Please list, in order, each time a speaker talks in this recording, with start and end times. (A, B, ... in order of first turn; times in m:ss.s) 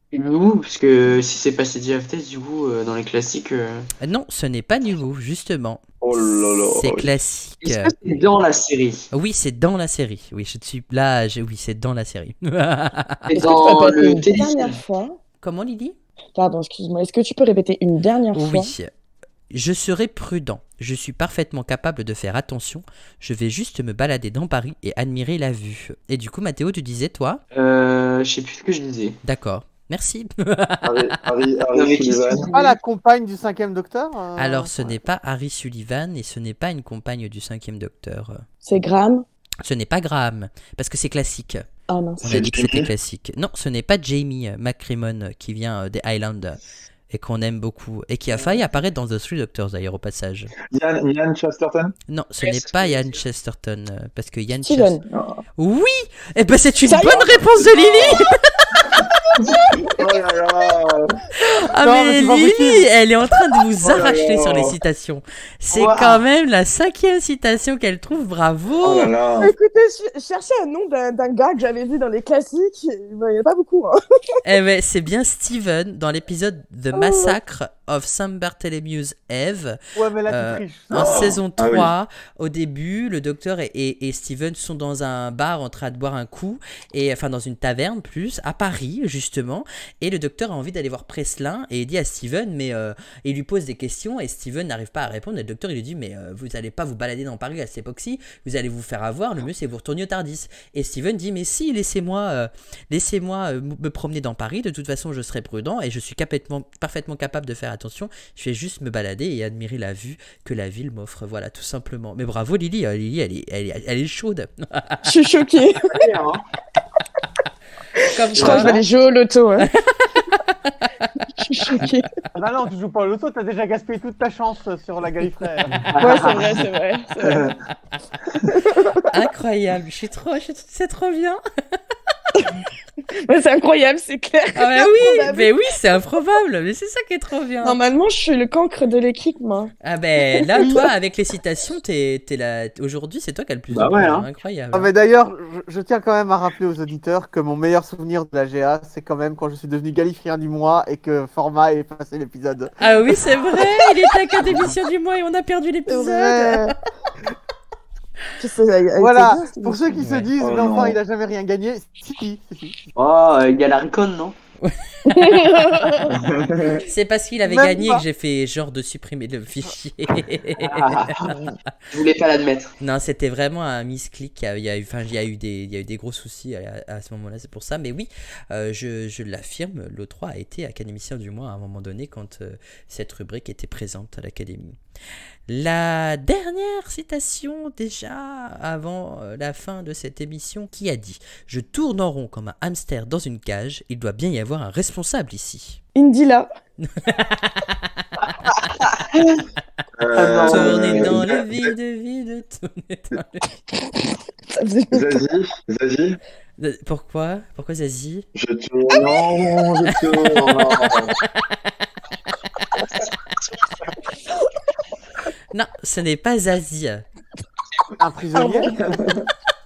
0:00.1-0:03.9 A
0:04.0-0:07.9 B
0:06.0-0:07.2 C
0:07.6-0:09.1 A
0:09.1-0:13.3 B
0:13.3-0:14.8 A
0:13.3-0:15.2 D
0:15.4-0:16.0 B
0:16.4-0:18.7 D
0:18.3-0:18.9 B
0:19.5-0:27.4 B
0:27.5-0:29.2 A
0:29.2-0:31.1 B
0:30.8-0:32.5 C
0:31.7-0:32.8 A
0:32.5-0:35.0 E
0:34.4-0:38.4 B
0:38.6-0:39.3 D
0:39.6-0:41.6 B
0:41.9-0:42.2 D
0:42.2-0:42.9 C
0:42.2-0:46.6 B
0:47.1-0:50.5 B
0:50.7-0:52.0 C
0:52.1-0:55.0 B
0:52.4-0:53.2 A
0:54.6-0:55.0 D
0:55.1-0:55.4 C
0:55.6-0:58.8 B
0:56.8-0:57.4 D
0:57.6-0:58.2 C
0:59.5-1:00.2 D
0:59.8-1:01.2 C
1:01.4-1:09.1 B
1:01.8-1:02.9 E
1:03.8-1:04.8 C
1:05.7-1:06.2 A
1:08.8-1:09.5 C
1:09.4-1:14.0 D
1:14.4-1:19.8 B
1:16.9-1:17.4 D
1:20.0-1:21.4 E
1:20.3-1:55.0 B
1:20.9-1:21.9 C
1:55.0-1:56.2 D
1:55.8-1:56.4 A
1:58.0-1:59.7 D
1:58.1-1:58.8 B
1:58.4-1:58.8 A
1:59.6-2:01.1 B
2:01.4-2:02.1 D
2:02.4-2:05.7 E
2:05.8-2:06.6 A
2:06.0-2:07.6 D
2:08.4-2:09.2 D
2:09.1-2:11.4 B
2:12.3-2:15.5 D
2:14.6-2:17.8 B
2:17.6-2:19.7 D
2:19.8-2:24.9 B
2:20.3-2:20.9 D
2:23.7-2:24.3 A
2:24.7-2:32.7 E
2:32.8-2:36.7 B
2:35.9-2:36.8 D
2:38.4-2:40.0 D
2:39.0-2:42.9 E
2:40.0-2:40.3 B
2:40.4-2:41.0 C
2:43.0-2:44.4 A
2:44.6-2:45.8 B
2:45.0-2:46.2 D
2:46.1-2:46.8 C
2:46.8-2:51.4 B
2:47.5-2:48.0 E
2:50.6-2:52.7 A
2:52.8-3:04.8 B
3:05.5-3:15.8 B
3:16.0-3:16.5 D
3:16.8-3:18.0 B
3:19.0-3:19.4 A
3:20.0-3:21.7 C
3:20.2-3:21.2 A
3:20.5-3:23.5 B
3:23.7-3:25.3 D
3:24.9-3:26.2 C
3:26.6-3:28.3 B
3:28.4-3:31.2 C
3:29.9-3:31.7 B
3:35.5-3:37.0 B
3:38.0-3:38.8 E
3:38.3-3:38.8 D
3:38.8-3:39.2 C